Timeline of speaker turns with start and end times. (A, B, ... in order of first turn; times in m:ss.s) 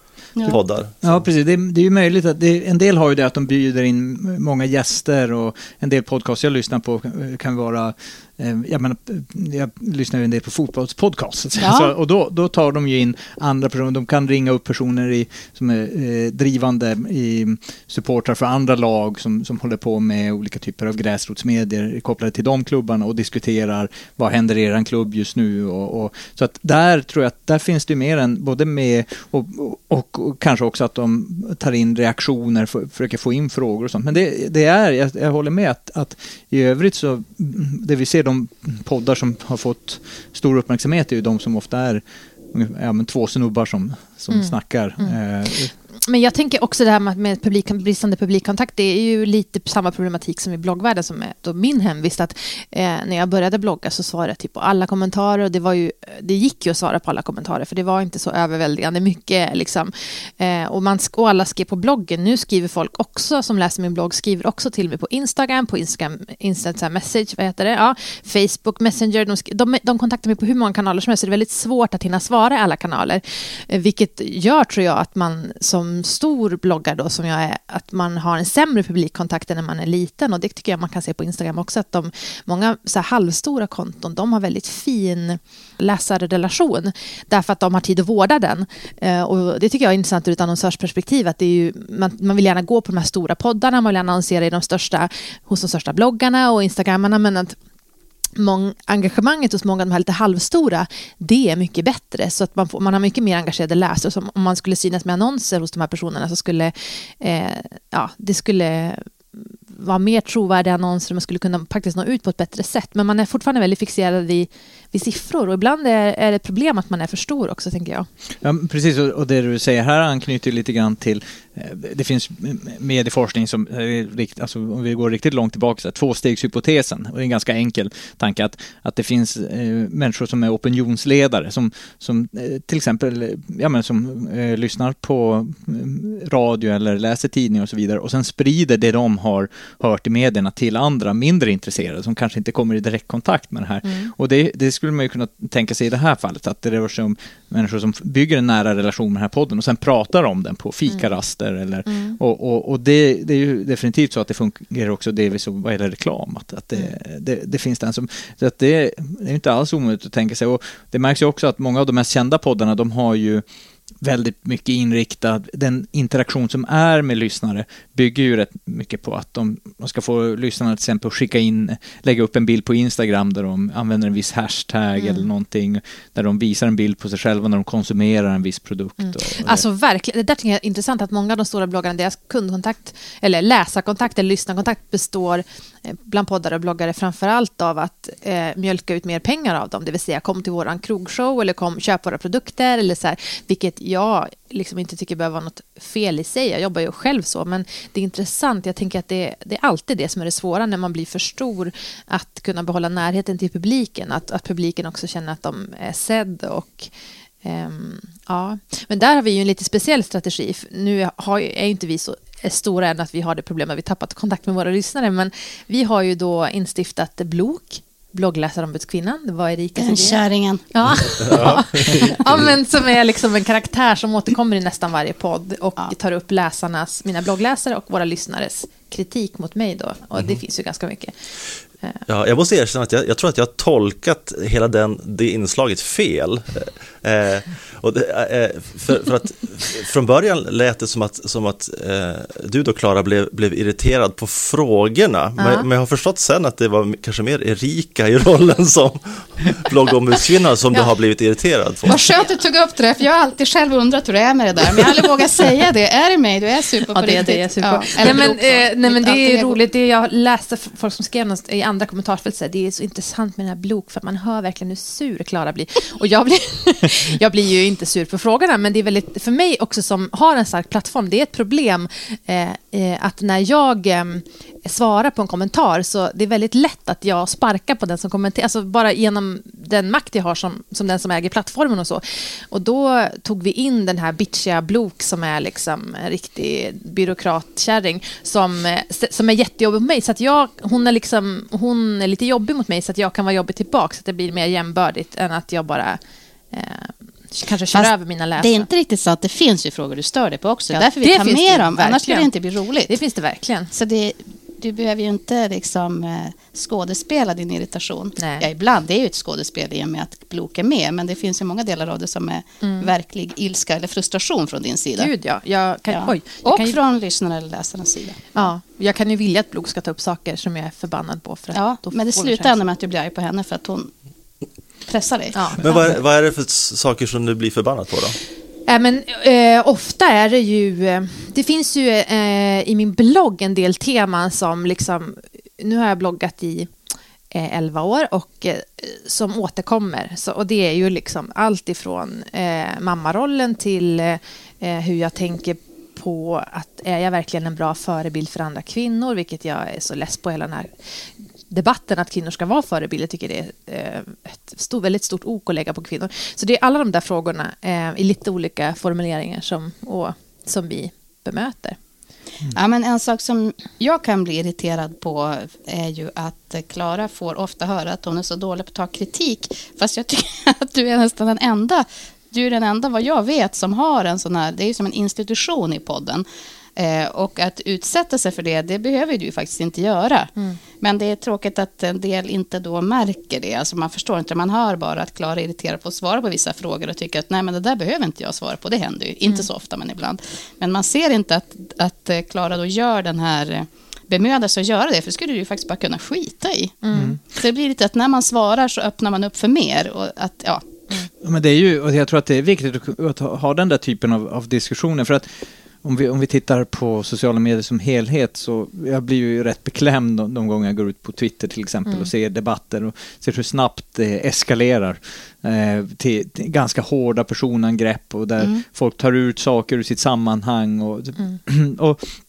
0:00.4-0:01.2 A
0:01.0-0:45.7 B
0:11.6-0:11.9 C
0:44.3-0:45.2 D
0:46.0-1:37.6 D
1:38.4-1:58.1 D
1:58.4-2:43.4 B
2:23.8-2:24.1 D
2:31.9-2:32.2 D
2:44.0-2:59.6 B
2:55.0-2:55.3 D
2:59.0-3:26.9 D
3:27.4-3:51.1 D
3:39.8-3:40.6 C
3:41.2-3:42.1 C
3:41.3-3:42.1 A
3:52.1-4:12.0 A
4:05.4-4:05.7 D
4:11.9-4:19.6 C
4:16.9-4:56.0 D
4:56.5-4:58.7 D
4:57.7-5:03.0 C
5:00.7-5:02.3 D
5:02.9-5:03.7 D
5:03.7-5:15.1 C
5:08.2-5:08.5 D
5:12.6-5:12.9 D
5:15.0-5:16.8 D
5:15.9-5:18.2 C
5:18.3-5:22.6 D
5:21.5-5:23.9 C
5:24.9-5:26.0 C
5:25.3-5:25.6 D
5:25.6-5:28.2 A
5:28.7-5:36.7 D
5:37.3-5:50.7 D
5:51.5-6:01.8 D
6:02.5-6:16.3 C
6:16.8-6:40.7 C
6:36.8-6:37.2 D
6:36.9-6:37.2 B
6:41.2-7:02.2 B